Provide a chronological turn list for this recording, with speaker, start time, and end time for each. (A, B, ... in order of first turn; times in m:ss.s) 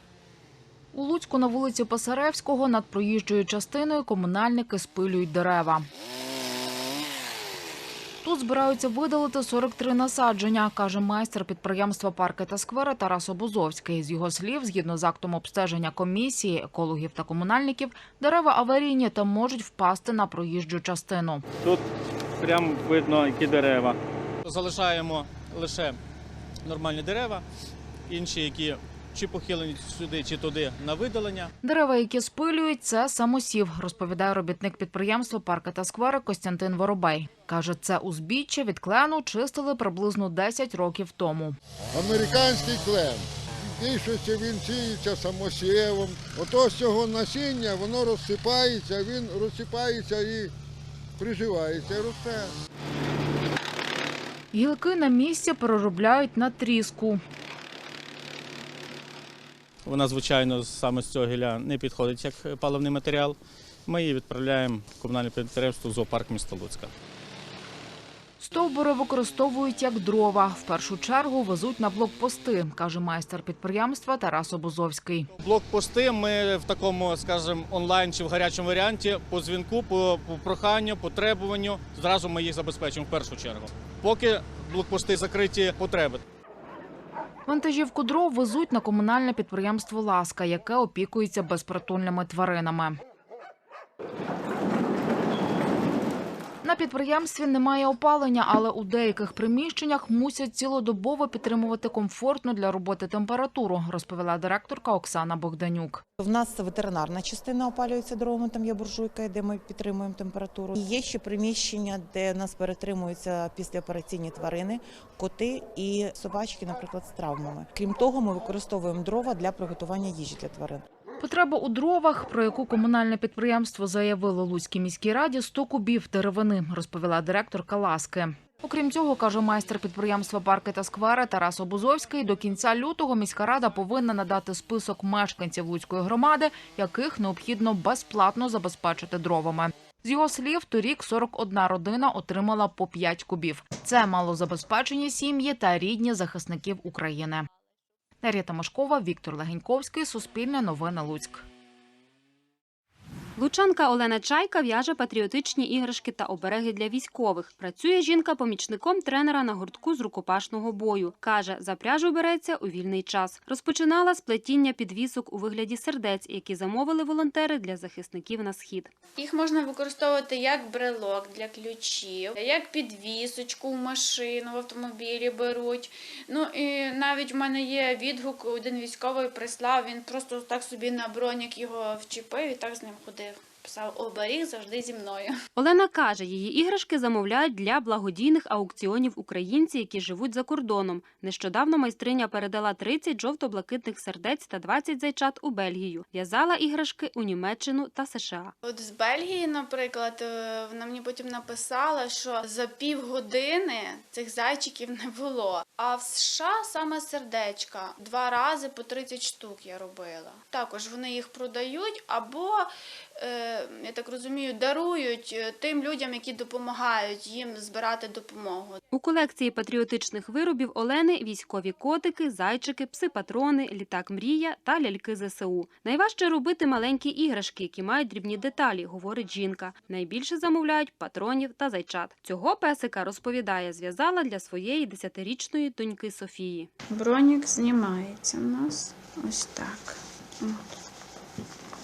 0:00.9-0:05.8 A
0:08.2-0:21.4 A
0:22.4-0:26.0 B
0:26.6-0:27.4 B
0:28.1-0:31.5 B
0:31.6-0:41.6 A
0:41.9-0:50.5 C
0:51.2-0:52.5 C
0:54.5-0:57.2 A
0:59.8-1:06.9 B
1:08.4-1:15.3 A
1:15.4-1:26.2 B
1:27.4-1:33.0 A
1:36.6-1:46.0 A
1:46.2-2:00.8 D
2:01.2-2:27.5 A
2:28.2-2:31.4 A
2:33.4-2:48.9 E
2:49.2-3:05.4 F
3:05.6-3:18.5 E
3:18.6-3:38.8 F
3:38.9-3:56.7 E
3:56.9-4:00.7 F